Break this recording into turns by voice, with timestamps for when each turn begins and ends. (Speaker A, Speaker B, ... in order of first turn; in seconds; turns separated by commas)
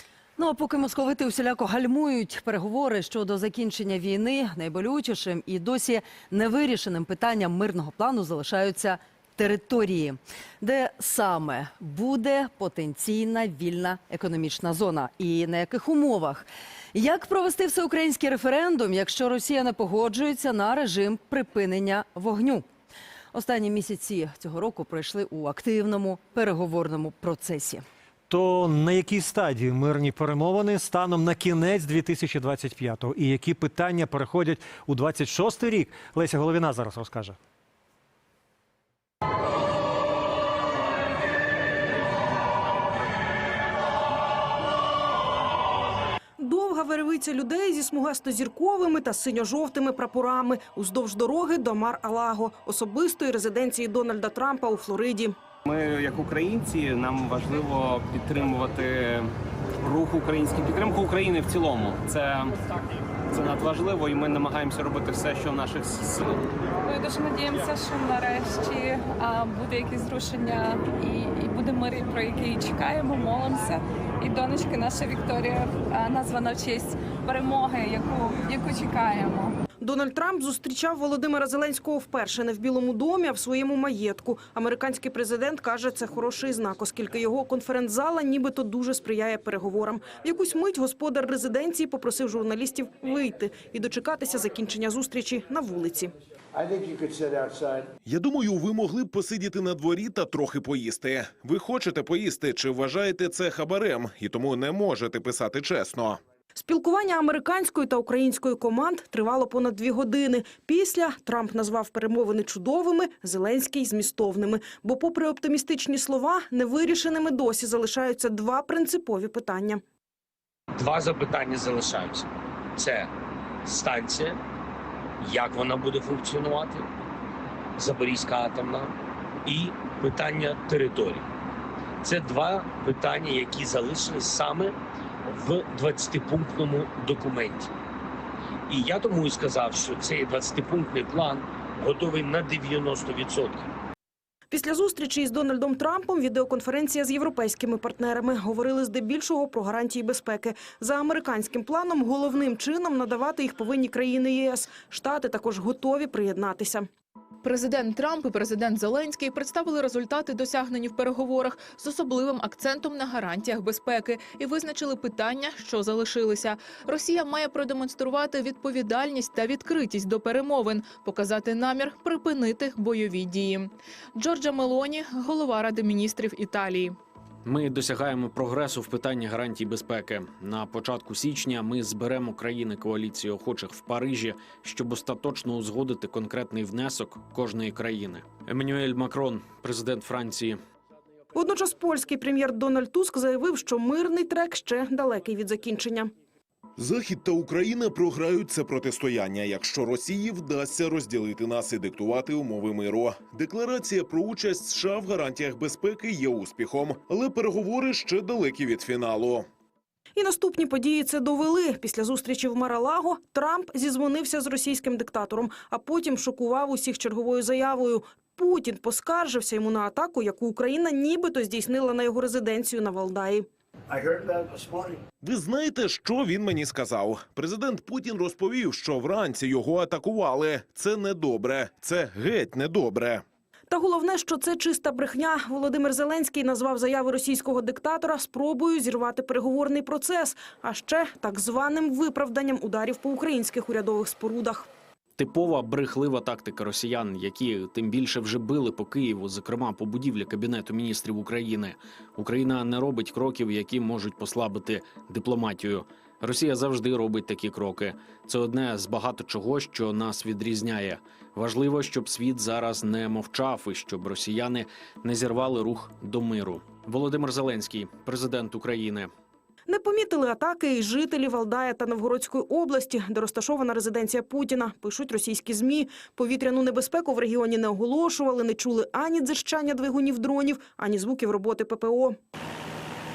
Speaker A: 0.4-22.6, Speaker A: 23.3-27.8, Speaker B: 28.3-37.4, Speaker C: 46.4-55.3, Speaker D: 55.7-59.2, Speaker D: 59.8-62.5, Speaker D: 63.3-66.3, Speaker E: 66.8-79.5, Speaker C: 79.8-96.1, Speaker F: 96.5-97.9, Speaker G: 98.0-106.2, Speaker C: 106.5-119.8, Speaker H: 120.8-123.1, Speaker H: 123.6-124.4, Speaker H: 125.2-126.9, Speaker H: 127.8-131.3, Speaker H: 132.0-137.7, Speaker H: 138.7-143.7, Speaker C: 144.5-156.9, Speaker I: 157.4-177.0, Speaker J: 177.4-190.6, Speaker C: 191.3-196.1, Speaker G: 196.8-209.4, Speaker C: 210.2-223.4, Speaker F: 223.9-225.0, Speaker G: 225.2-233.2, Speaker C: 233.7-244.7, Speaker J: 245.2-269.1, Speaker C: 269.7-282.1